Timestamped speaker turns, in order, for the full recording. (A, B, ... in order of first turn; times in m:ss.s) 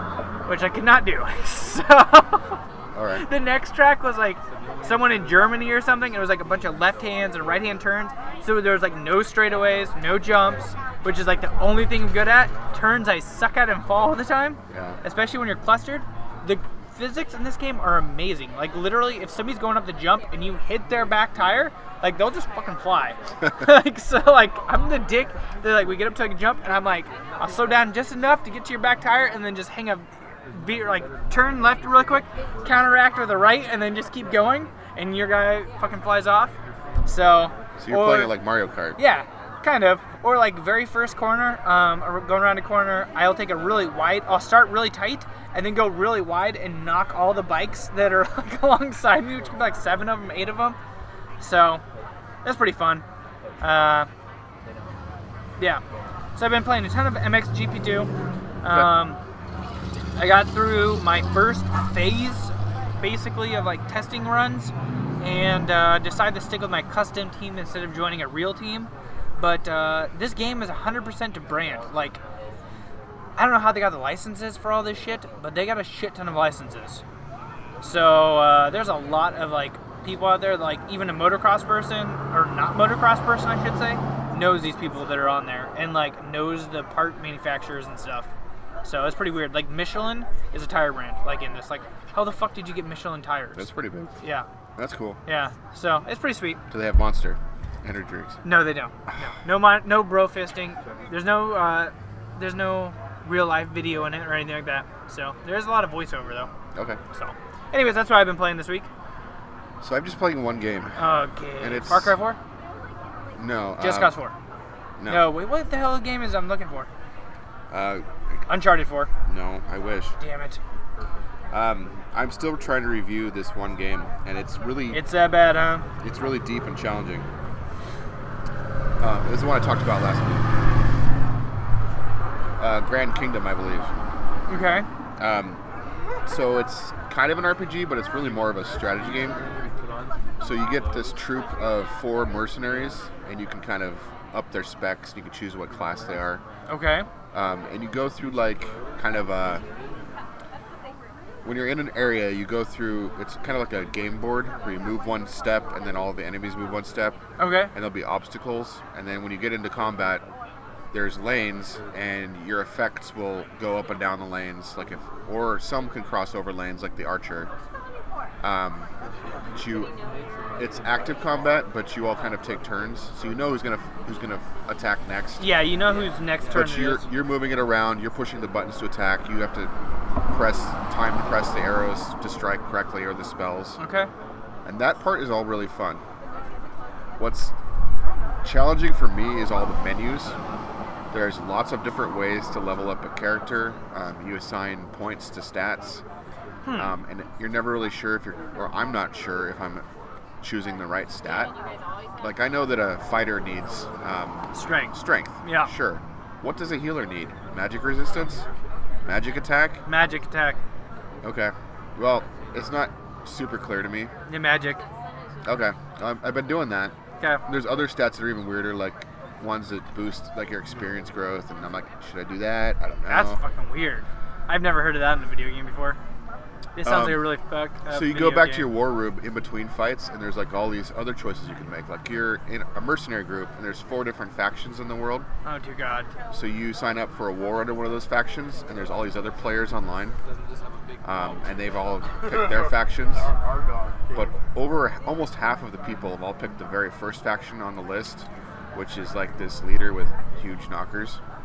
0:00.4-0:02.6 A
0:02.9-0:03.3 B
0:03.2-0:36.5 A
0:14.7-0:15.0 B
0:37.0-0:38.3 A
0:37.8-0:39.0 B
0:39.0-0:50.8 A
0:51.4-0:51.8 A
0:52.4-0:53.0 A
0:53.6-0:54.1 A
0:56.4-0:58.1 A
0:58.6-0:59.2 A
0:58.7-0:58.9 B
1:00.2-1:12.2 A
1:13.4-1:17.0 A
1:17.8-1:28.3 A
1:28.8-1:33.7 A
1:33.5-1:34.2 B
1:34.8-1:35.2 B
1:35.2-1:36.6 A
1:36.7-1:38.4 B
1:38.4-1:46.5 A
1:39.1-1:39.3 B
1:46.7-1:47.0 B
1:47.1-1:48.9 A
1:49.8-1:52.2 B
1:51.0-1:52.4 A
1:53.4-1:54.2 B
1:53.8-1:54.3 A
1:55.0-1:55.4 B
1:55.1-1:56.9 A
1:57.7-1:58.6 B
1:58.5-1:59.1 A
1:59.2-2:00.2 B
2:00.2-2:00.6 A
2:01.5-2:05.0 B
2:04.9-2:05.8 A
2:06.0-2:07.3 B
2:09.0-2:10.5 B
2:12.6-2:13.9 B
2:14.5-2:14.8 A
2:15.2-2:15.6 B
2:16.2-2:19.4 B
2:20.4-2:26.4 B
2:26.7-2:27.1 A
2:27.3-2:29.6 B
2:31.4-2:37.2 B
2:37.4-2:37.7 A
2:37.7-2:40.2 B
2:40.9-2:47.5 B
2:48.4-2:48.9 B
2:49.5-2:49.9 B
2:50.6-2:55.5 B
2:55.4-2:57.0 A
2:56.5-2:59.7 B
3:00.3-3:03.8 B
3:03.8-3:04.1 A
3:04.6-3:06.0 B
3:07.2-3:07.5 B
3:08.4-3:10.4 B
3:11.1-3:16.0 B
3:16.6-3:16.9 A
3:16.7-3:19.8 B
3:20.4-3:21.5 B
3:22.2-3:28.5 B
3:24.5-3:25.7 A
3:29.0-3:29.8 B
3:29.8-3:30.6 A
3:31.2-3:34.1 B
3:34.3-3:34.8 A
3:35.4-3:43.4 B
3:43.1-3:46.0 A
3:46.8-3:48.7 A
3:46.8-3:47.4 B
3:47.9-3:55.3 B
3:55.4-3:56.1 A
3:56.3-4:00.2 B
4:01.0-4:03.3 B
4:04.1-4:11.2 B